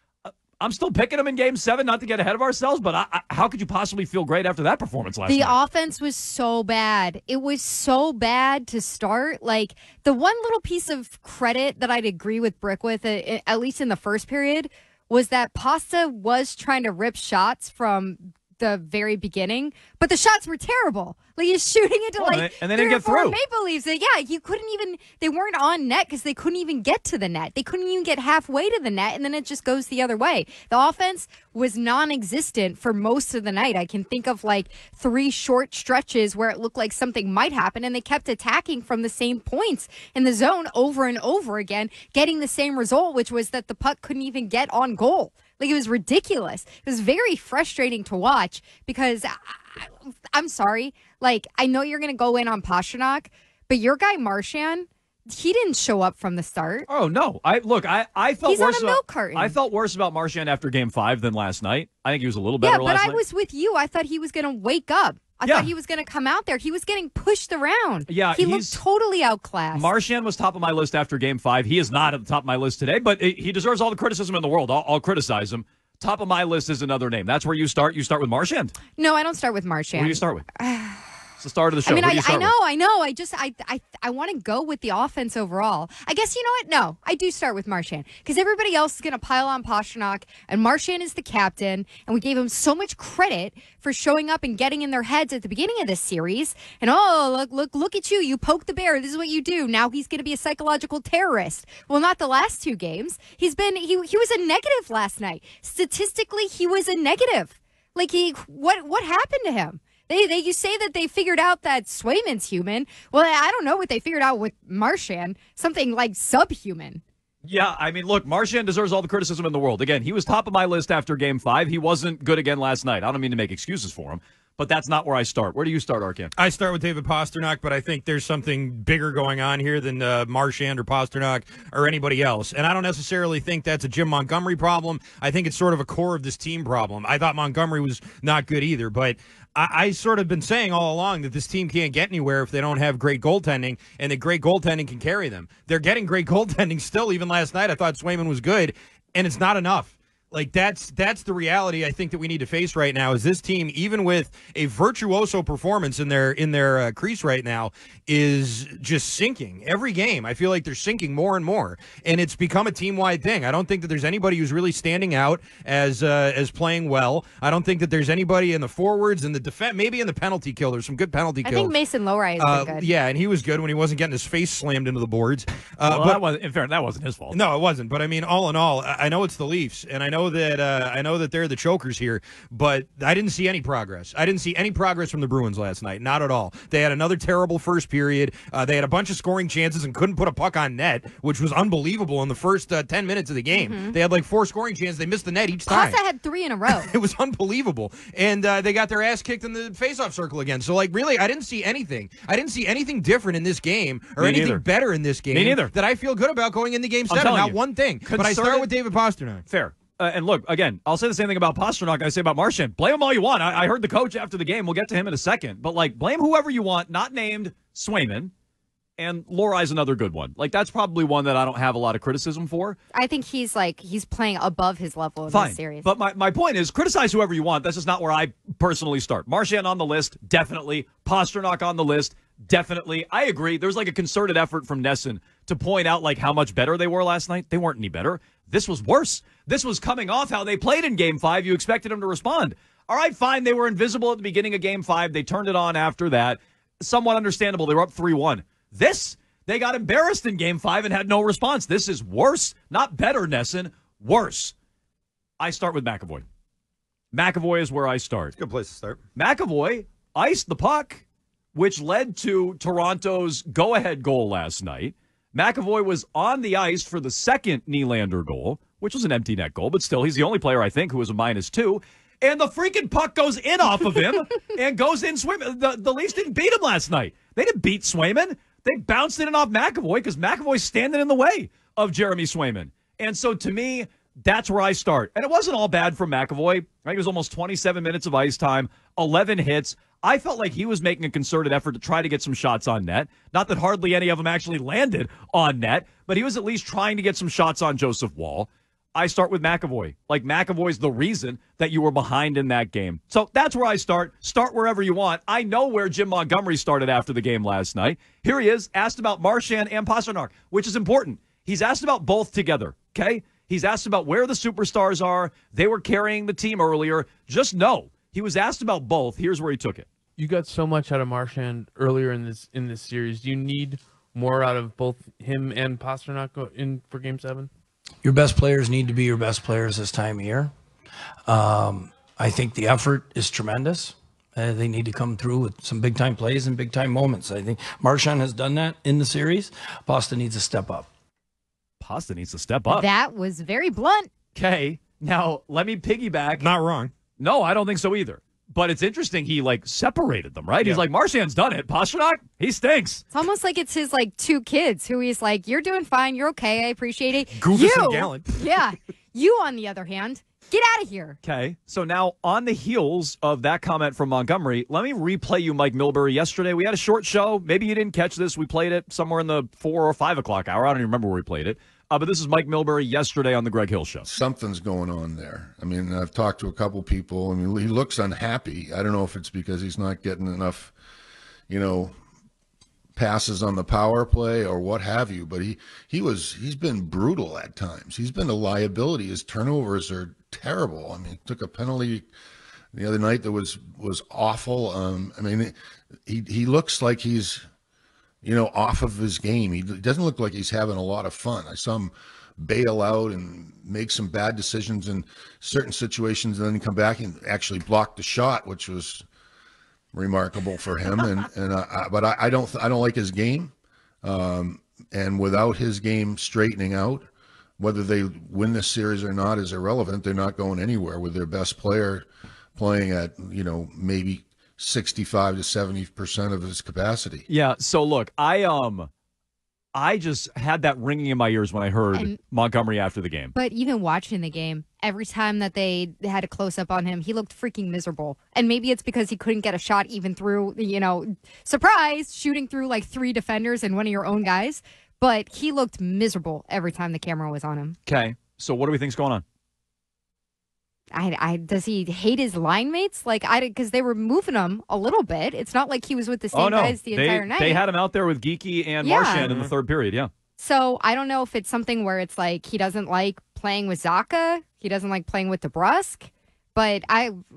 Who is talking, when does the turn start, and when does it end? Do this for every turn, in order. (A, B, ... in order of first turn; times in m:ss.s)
0:00.2-0:05.6 A
0:05.3-0:56.9 B
0:22.2-0:23.4 A
0:56.9-1:03.2 A
0:58.4-0:59.5 B
1:02.6-1:09.9 B
1:05.4-1:05.7 A
1:08.1-1:08.8 A
1:09.7-1:18.7 A
1:19.0-1:21.1 B
1:19.9-1:20.4 A
1:21.4-1:22.5 A
1:21.8-1:57.0 B
1:57.4-2:06.3 A
2:06.4-2:51.8 C
2:51.4-2:52.9 B
2:52.4-2:56.2 C
2:55.8-2:57.4 A
2:57.3-3:16.0 C
3:13.5-3:14.0 B
3:15.7-3:16.9 B
3:16.7-3:29.4 C
3:24.2-3:24.6 A
3:25.3-3:25.7 A
3:27.1-3:28.7 A
3:29.5-3:38.3 A
3:39.0-3:42.8 A
3:42.9-3:45.9 B
3:45.3-4:14.5 A
4:15.4-4:16.2 A
4:17.1-4:18.3 A
4:18.4-4:19.0 C
4:19.2-5:19.9 A
5:20.2-5:27.5 D
5:28.0-5:30.5 E
5:31.3-5:40.9 E
5:41.8-5:42.8 A
5:42.7-5:44.1 B
5:44.3-5:46.4 A
5:46.4-5:46.9 C
5:47.2-5:53.0 A
5:53.1-6:01.2 B
5:57.3-5:58.4 C
6:01.2-6:14.1 A
6:14.1-6:20.7 F
6:21.5-6:21.9 F
6:23.0-6:32.0 F
6:32.7-6:35.5 F
6:36.0-6:37.4 F
6:38.2-6:49.0 F
6:49.9-6:53.5 F
6:54.0-6:57.0 F
6:57.6-7:07.2 F
7:07.3-7:08.9 A
7:09.7-7:13.3 A
7:13.3-7:27.8 B
7:27.8-7:29.2 A
7:30.9-7:37.6 B
7:36.3-7:40.1 A
7:38.8-7:39.3 B
7:39.1-7:39.5 C
7:40.4-7:47.2 B